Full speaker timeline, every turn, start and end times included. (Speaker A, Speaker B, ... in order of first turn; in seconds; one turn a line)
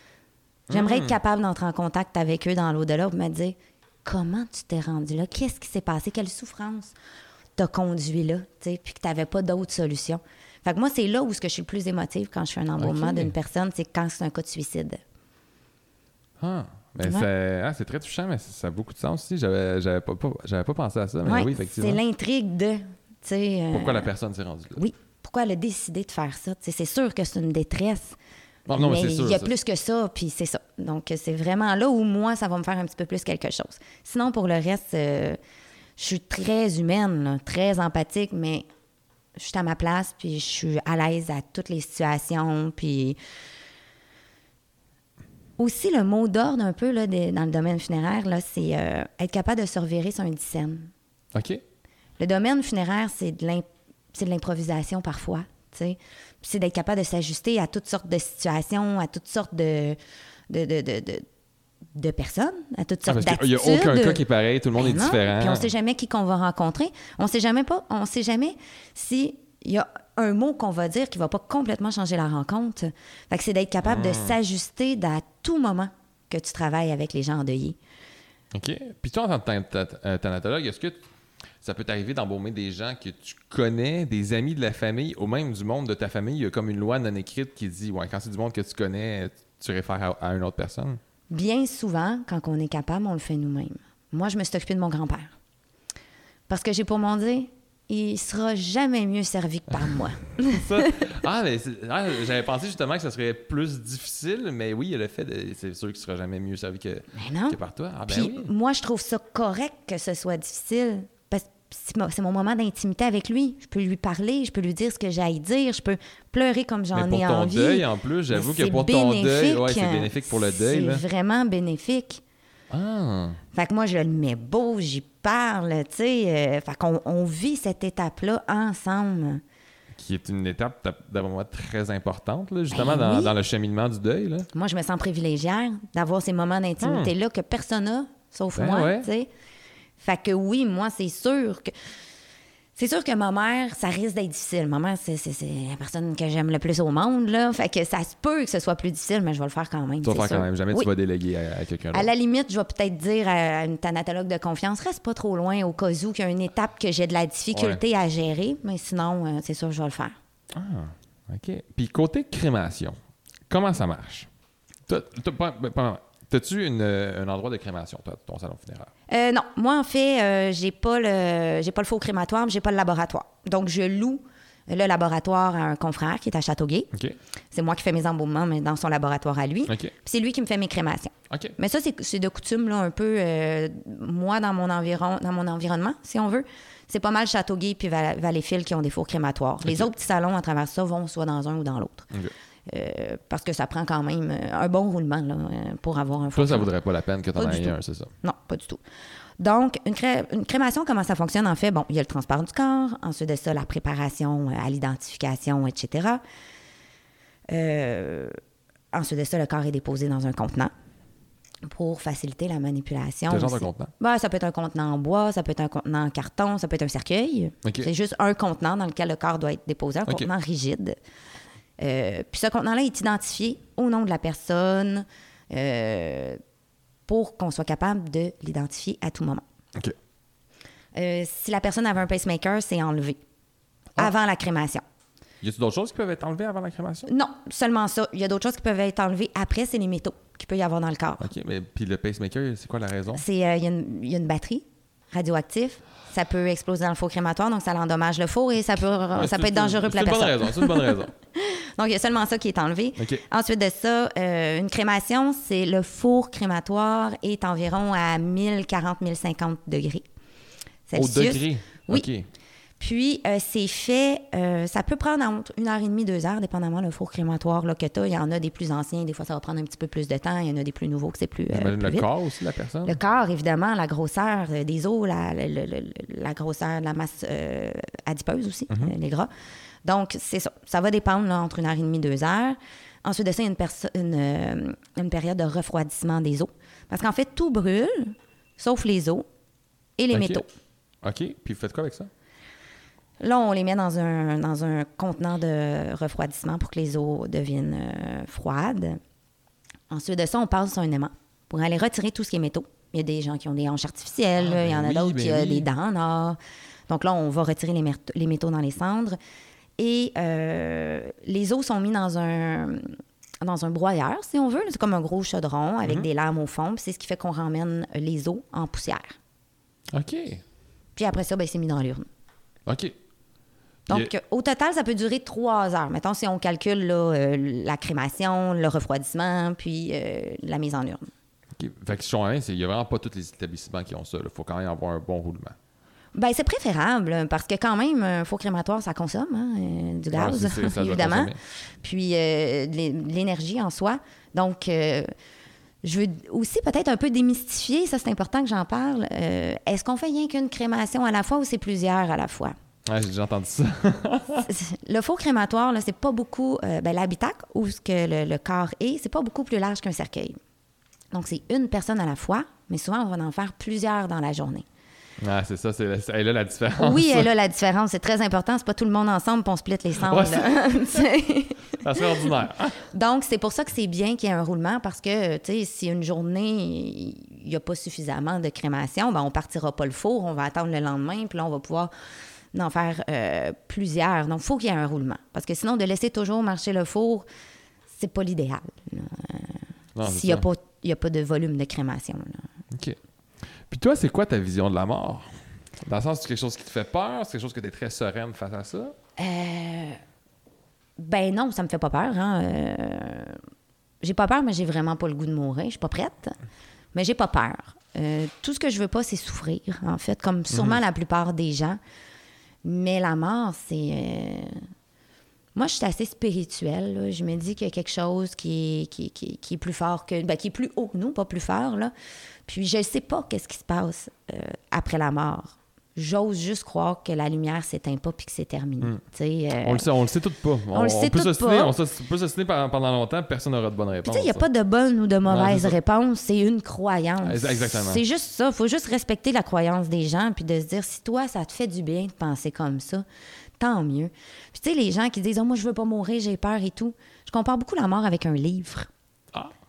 Speaker A: 0.7-1.1
Speaker B: 0.7-6.9
Speaker B: 7.6-15.0
Speaker A: 12.8-13.3
Speaker A: 16.4-22.0
Speaker B: 21.2-24.1
Speaker A: 23.7-24.8
Speaker B: 24.8-28.2
Speaker A: 28.7-29.5
Speaker B: 28.7-35.4
Speaker B: 36.0-38.7
Speaker B: 39.4-43.2
Speaker B: 45.6-50.9
Speaker A: 51.3-51.6
Speaker B: 52.2-60.0
Speaker B: 60.5-61.2
Speaker B: 61.9-64.2
Speaker A: 63.1-65.7
Speaker B: 64.8-77.8
Speaker A: 73.8-74.4
Speaker A: 78.5-81.0
Speaker A: 81.6-91.0
Speaker B: 91.3-95.3
Speaker B: 96.5-101.1
Speaker A: 100.4-108.5
Speaker B: 107.1-122.2
Speaker A: 116.9-121.0
Speaker A: 122.7-123.4
Speaker B: 123.5-129.4
Speaker A: 129.9-134.5
Speaker B: 132.7-133.3
Speaker B: 134.5-139.3
Speaker A: 136.8-137.1
Speaker A: 138.5-139.1
Speaker B: 140.0-141.7
Speaker B: 142.8-150.9
Speaker A: 150.0-152.1
Speaker B: 151.9-160.2
Speaker A: 157.5-157.8
Speaker A: 160.5-162.9
Speaker A: 163.5-164.3
Speaker A: 164.9-168.9
Speaker B: 169.1-176.9
Speaker B: 177.5-192.1
Speaker A: 179.7-179.9
Speaker A: 181.3-181.5
Speaker A: 189.6-189.9
Speaker B: 192.7-196.7
Speaker A: 196.3-198.1
Speaker B: 197.3-198.8
Speaker B: 199.4-206.2
Speaker B: 207.5-208.3
Speaker B: 208.9-210.7
Speaker B: 211.6-220.9
Speaker A: 213.3-213.9
Speaker A: 217.6-217.9
Speaker B: 221.8-226.4
Speaker B: 227.1-229.4
Speaker B: 230.9-233.2
Speaker B: 233.9-234.8
Speaker A: 235.4-237.1
Speaker B: 237.1-241.3
Speaker A: 241.2-243.2
Speaker B: 243.1-260.1
Speaker A: 249.1-251.1
Speaker A: 253.0-253.2
Speaker B: 260.9-262.1
Speaker A: 260.9-262.3
Speaker B: 262.8-272.1
Speaker A: 271.5-273.0
Speaker B: 272.8-279.3
Speaker B: 279.8-289.2
Speaker B: 290.0-290.4
Speaker A: 290.1-290.4
Speaker A: 291.0-292.1
Speaker B: 293.2-299.0
Speaker B: 299.9-309.2
Speaker A: 304.4-305.7
Speaker B: 309.8-319.2
Speaker A: 319.9-320.4
Speaker B: 320.9-322.1
Speaker A: 322.6-322.9
Speaker B: 323.9-331.1
Speaker A: 331.6-335.6
Speaker B: 336.1-345.1
Speaker A: 340.1-341.4
Speaker B: 345.8-352.5
Speaker A: 352.9-354.5
Speaker B: 354.4-360.4
Speaker B: 361.1-364.6
Speaker A: 365.2-367.3
Speaker B: 366.8-372.3
Speaker A: 370.0-371.0
Speaker A: 371.8-372.9
Speaker B: 372.9-381.9
Speaker B: 382.5-387.2
Speaker B: 387.9-392.5
Speaker A: 389.9-390.4
Speaker A: 392.7-393.0
Speaker A: 393.7-398.9
Speaker B: 399.2-400.0
Speaker B: 401.0-403.4
Speaker B: 404.0-406.4
Speaker B: 406.9-411.8
Speaker A: 410.5-410.8
Speaker B: 412.6-414.6
Speaker B: 415.5-421.9
Speaker B: 422.5-429.8
Speaker A: 429.6-434.4
Speaker B: 430.7-431.7
Speaker B: 434.1-443.0
Speaker A: 435.2-435.7
Speaker A: 437.2-438.0
Speaker B: 443.6-448.9